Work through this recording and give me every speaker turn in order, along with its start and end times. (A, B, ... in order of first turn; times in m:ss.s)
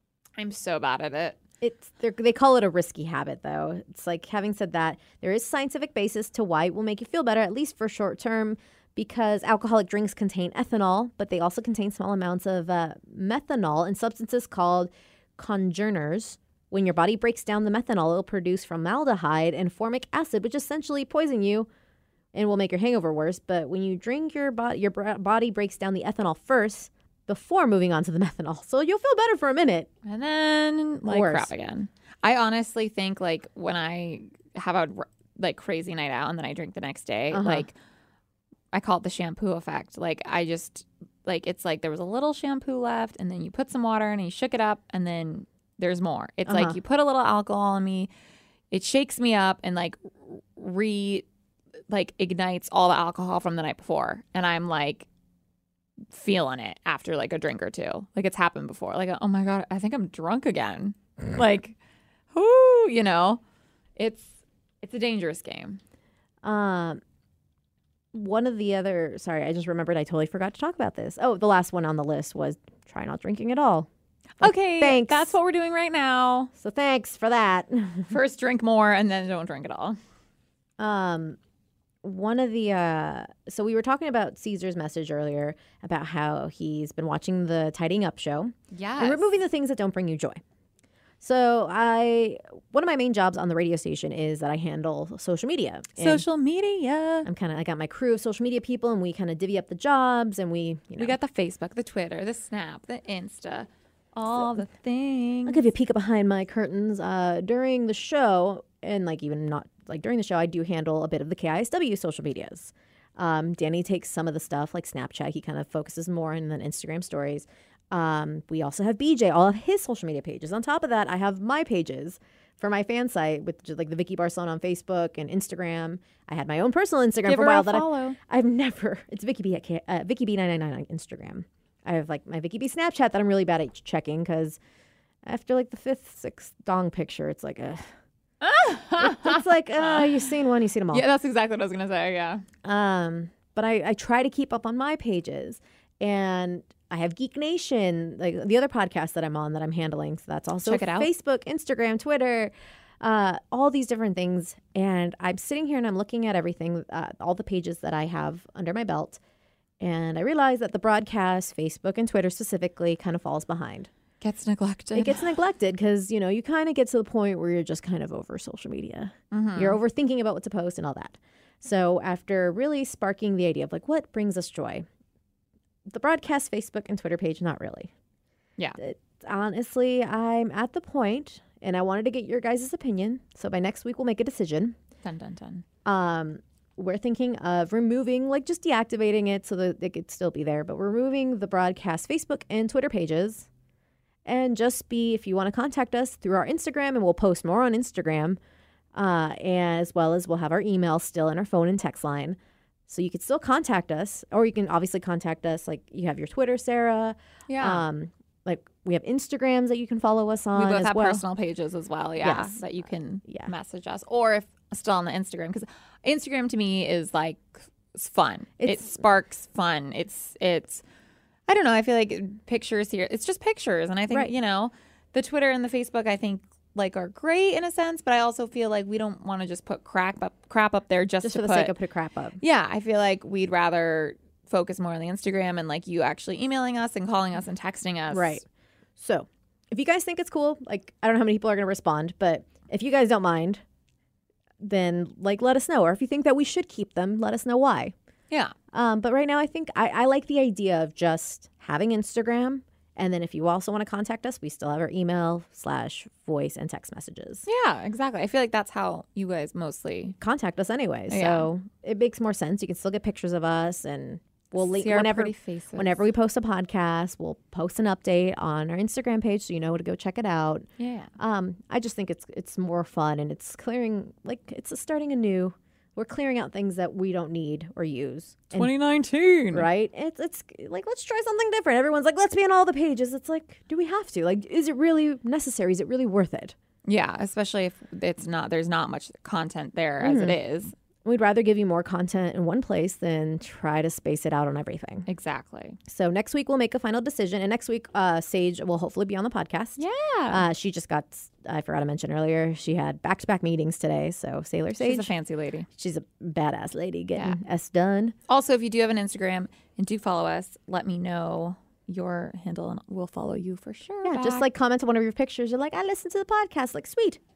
0:00.4-0:01.4 A
0:01.6-0:21.7 B
0:22.3-0:29.9 B
0:30.0-0:37.7 A
0:31.0-0:31.5 B
0:37.3-0:37.7 B
0:38.7-0:48.1 A
0:46.5-0:46.8 B
0:48.7-0:51.2 A
0:51.9-0:55.1 A
0:56.1-1:01.7 A
1:02.3-1:03.4 A
1:04.0-1:05.8 A
1:06.4-1:07.0 B
1:08.1-1:13.9 B
1:14.4-1:16.5 A
1:14.4-1:15.3 B
1:16.6-1:18.1 B
1:18.1-1:20.0 A
1:20.8-1:21.4 B
1:22.0-1:30.4 B
1:28.7-1:29.3 A
1:31.2-1:36.2 B
1:36.0-1:37.3 A
1:37.2-1:41.2 B
1:41.0-1:45.6 A
1:45.4-2:14.6 B
2:07.2-2:08.2 A
2:15.2-2:17.9 B
2:18.4-2:20.2 A
2:19.0-2:21.0 B
2:20.9-2:22.4 A
2:22.6-2:39.2 B
2:30.6-2:31.1 A
2:39.8-2:43.9 B
2:44.2-2:45.3 A
2:44.9-2:54.8 B
2:49.3-2:49.8 A
2:55.9-2:57.9 B
2:58.8-3:04.8 B
3:05.0-3:05.6 A
3:05.8-3:13.5 B
3:14.2-3:18.4 B
3:18.9-3:22.4 B
3:22.9-3:31.2 B
3:27.5-3:27.8 A
3:30.5-3:40.8 A
3:32.2-3:32.6 B
3:33.2-3:33.5 B
3:38.6-3:38.9 B
3:41.5-3:51.7 A
3:51.2-3:52.4 B
3:52.4-3:58.4 A
3:58.1-3:58.4 B
3:59.0-4:03.6 B
4:04.6-4:07.9 B
4:08.7-4:17.4 B
4:17.4-4:20.2 A
4:20.2-4:30.7 B
4:21.1-4:21.5 A
4:24.5-4:26.0 A
4:30.8-4:31.1 A
4:31.2-4:38.7 B
4:38.5-4:39.7 A
4:39.5-4:46.5 B
4:46.8-4:50.7 A
4:50.0-4:50.4 B
4:51.0-4:55.1 B
4:55.1-4:55.8 A
4:55.8-5:05.1 B
4:59.8-5:00.4 A
5:04.8-5:05.7 A
5:05.7-5:08.2 B
5:08.3-5:14.4 A
5:14.0-5:17.2 B